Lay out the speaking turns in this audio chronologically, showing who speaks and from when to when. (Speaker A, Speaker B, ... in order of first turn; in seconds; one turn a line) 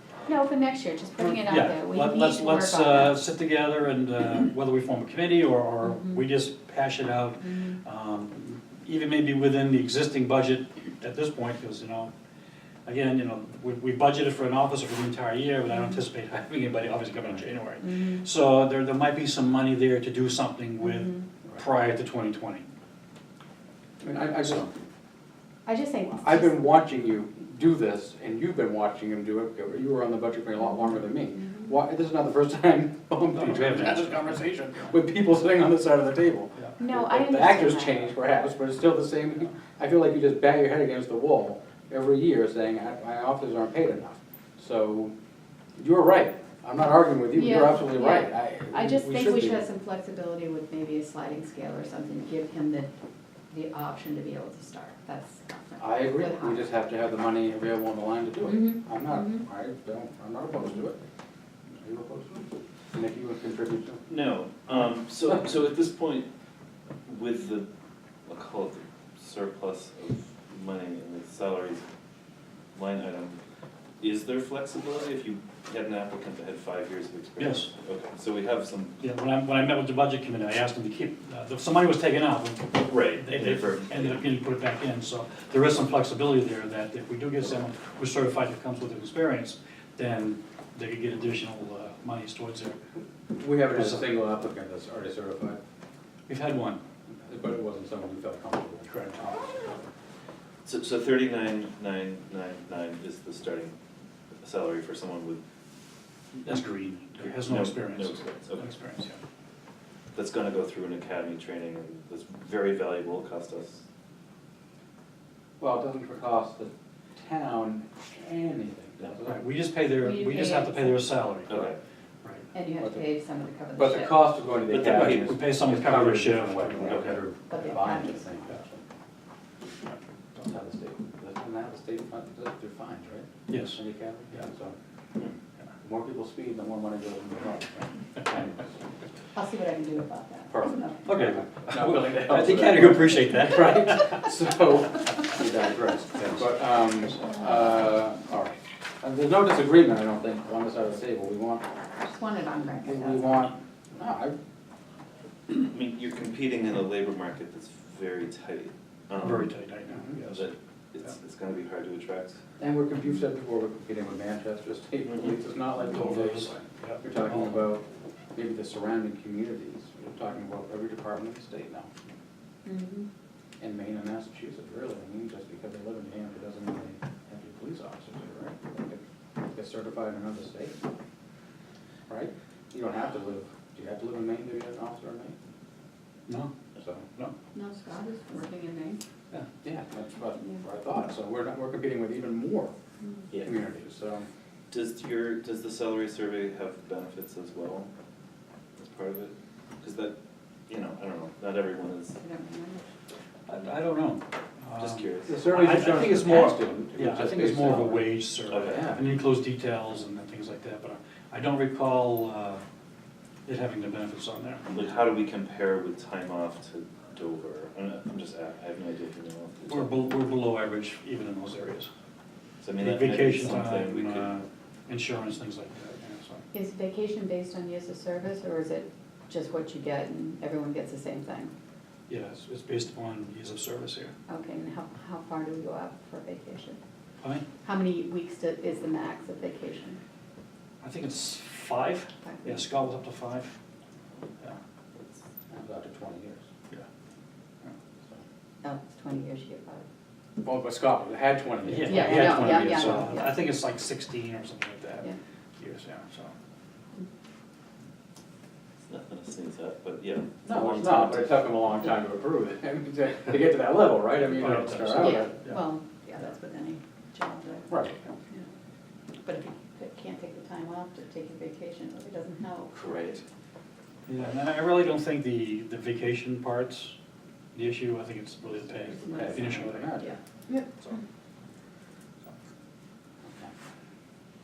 Speaker A: 0.3-3.2
Speaker B: 1.2-12.1
Speaker A: 5.8-6.2
Speaker A: 7.5-7.8
Speaker B: 12.8-22.7
Speaker A: 17.8-18.2
Speaker A: 20.8-21.3
Speaker C: 24.0-24.7
Speaker A: 25.6-26.8
Speaker C: 26.2-45.1
Speaker A: 31.2-31.6
Speaker B: 33.3-34.9
Speaker A: 36.8-38.0
Speaker C: 45.8-49.6
Speaker A: 47.3-52.9
Speaker A: 53.5-56.6
Speaker C: 55.8-61.0
Speaker A: 58.4-59.4
Speaker C: 61.8-64.0
Speaker D: 64.1-66.3
Speaker D: 67.0-67.7
Speaker D: 68.2-71.8
Speaker D: 72.7-73.4
Speaker D: 74.0-79.0
Speaker B: 77.4-77.7
Speaker B: 79.0-92.8
Speaker D: 82.8-84.2
Speaker C: 93.3-95.6
Speaker B: 93.7-94.1
Speaker B: 96.3-96.8
Speaker C: 97.1-99.8
Speaker B: 98.9-99.2
Speaker D: 100.6-103.7
Speaker D: 104.4-105.4
Speaker B: 106.4-109.2
Speaker D: 107.2-108.7
Speaker D: 110.1-113.8
Speaker C: 115.6-119.4
Speaker B: 119.2-121.7
Speaker A: 120.0-121.0
Speaker D: 121.5-121.8
Speaker A: 122.5-124.2
Speaker C: 123.8-128.8
Speaker D: 124.7-125.4
Speaker B: 124.9-127.0
Speaker D: 126.8-127.2
Speaker A: 127.5-128.2
Speaker C: 130.4-134.7
Speaker B: 133.5-133.8
Speaker C: 135.8-138.7
Speaker A: 139.3-141.1
Speaker C: 140.5-151.7
Speaker B: 141.1-144.3
Speaker A: 147.2-147.7
Speaker A: 152.0-153.4
Speaker C: 152.8-154.3
Speaker D: 155.5-159.5
Speaker B: 159.2-160.5
Speaker D: 160.3-162.4
Speaker C: 162.6-167.8
Speaker B: 165.8-167.7
Speaker C: 168.3-171.9
Speaker A: 172.6-173.1
Speaker C: 173.6-180.8
Speaker C: 182.1-185.3
Speaker B: 186.3-186.5
Speaker C: 186.8-187.0
Speaker A: 187.5-189.0
Speaker C: 189.6-192.7
Speaker C: 193.4-194.2
Speaker D: 194.7-197.9
Speaker D: 198.8-200.2
Speaker D: 200.7-202.2
Speaker A: 202.2-202.9
Speaker B: 203.5-212.6
Speaker D: 204.8-206.2
Speaker C: 205.3-208.1
Speaker D: 208.5-209.0
Speaker C: 208.7-209.0
Speaker B: 213.4-214.7
Speaker D: 214.7-220.1
Speaker B: 219.7-221.9
Speaker D: 222.6-224.4
Speaker B: 222.8-226.4
Speaker A: 226.5-231.5
Speaker B: 232.1-234.1
Speaker A: 234.3-236.8
Speaker A: 237.6-240.0
Speaker B: 240.8-243.5
Speaker A: 242.2-242.6
Speaker C: 245.5-246.4
Speaker A: 248.6-249.8
Speaker C: 250.4-253.1
Speaker B: 251.7-256.3
Speaker A: 251.8-253.4
Speaker D: 258.9-261.4
Speaker C: 260.4-265.4
Speaker B: 264.3-265.6
Speaker A: 264.9-267.7
Speaker C: 267.7-268.0
Speaker A: 269.2-272.8
Speaker C: 272.8-273.2
Speaker D: 272.8-273.1
Speaker B: 274.1-276.9
Speaker B: 277.5-280.0
Speaker C: 278.9-280.1
Speaker A: 278.9-281.0
Speaker C: 283.2-283.5